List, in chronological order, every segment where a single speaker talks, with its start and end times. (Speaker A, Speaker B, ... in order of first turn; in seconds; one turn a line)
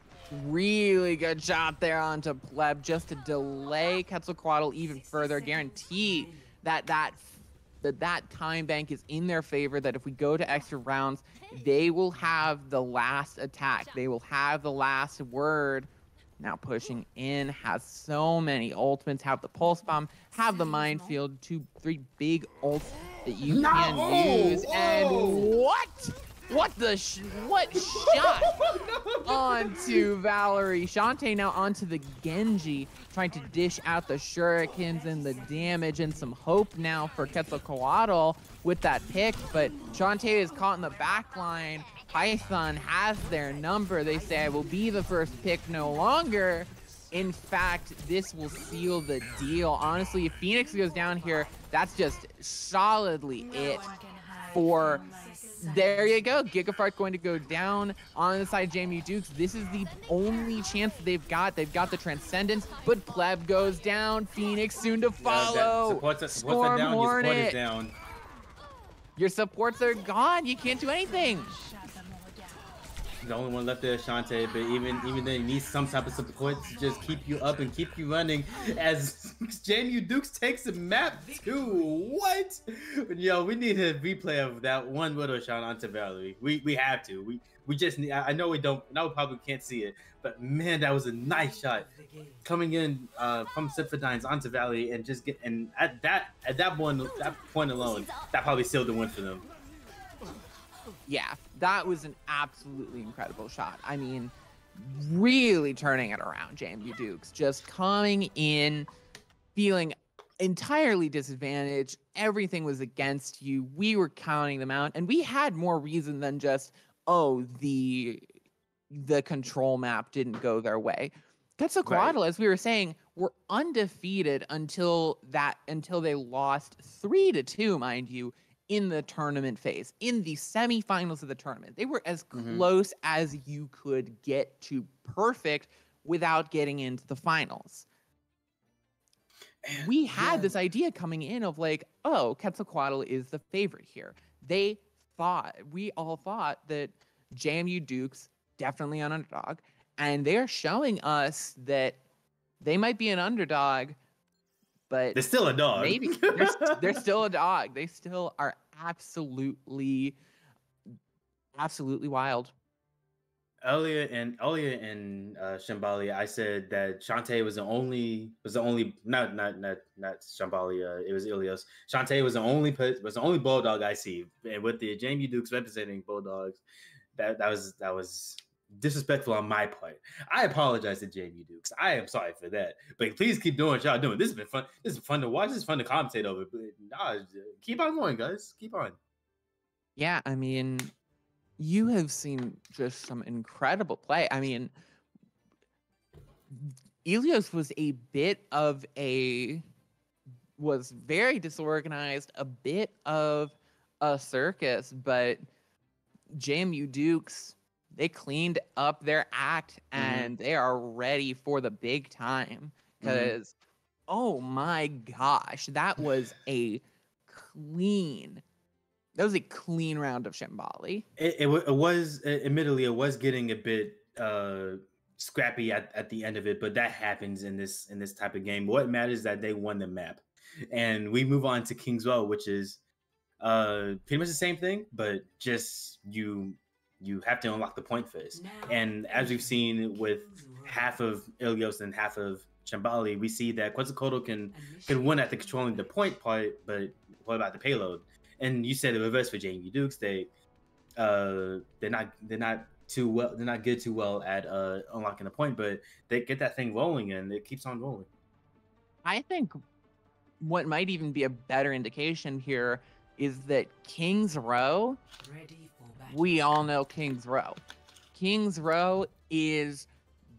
Speaker A: 0.3-28.6
Speaker B: 23.5-25.6
Speaker B: 27.8-30.1
Speaker A: 29.3-53.9
Speaker A: 54.5-55.0
Speaker A: 55.6-67.6
Speaker B: 65.2-67.9
Speaker A: 69.2-71.6
Speaker C: 71.8-72.5
Speaker B: 73.2-91.9
Speaker C: 91.7-92.3
Speaker B: 92.4-99.5
Speaker A: 101.1-108.9
Speaker A: 109.5-118.3
Speaker A: 118.9-137.9
Speaker B: 121.8-122.2
Speaker B: 132.3-132.7
Speaker B: 139.6-140.5
Speaker A: 139.8-152.0
Speaker A: 152.6-154.0
Speaker A: 154.9-155.2
Speaker B: 155.2-157.0
Speaker A: 155.7-160.2
Speaker A: 161.6-162.5
Speaker B: 163.6-176.6
Speaker B: 177.2-189.0
Speaker A: 190.0-190.9
Speaker A: 191.6-194.7
Speaker A: 196.5-199.6
Speaker A: 200.6-205.4
Speaker A: 206.3-213.5
Speaker B: 210.0-210.3
Speaker B: 213.0-213.3
Speaker A: 214.1-218.4
Speaker A: 219.2-221.1
Speaker B: 221.2-232.8
Speaker B: 233.4-250.3
Speaker C: 238.3-241.0
Speaker C: 244.5-245.9
Speaker B: 251.0-258.1
Speaker A: 259.1-259.6
Speaker A: 260.4-265.0
Speaker C: 265.2-266.5
Speaker A: 266.1-267.6
Speaker A: 268.1-269.9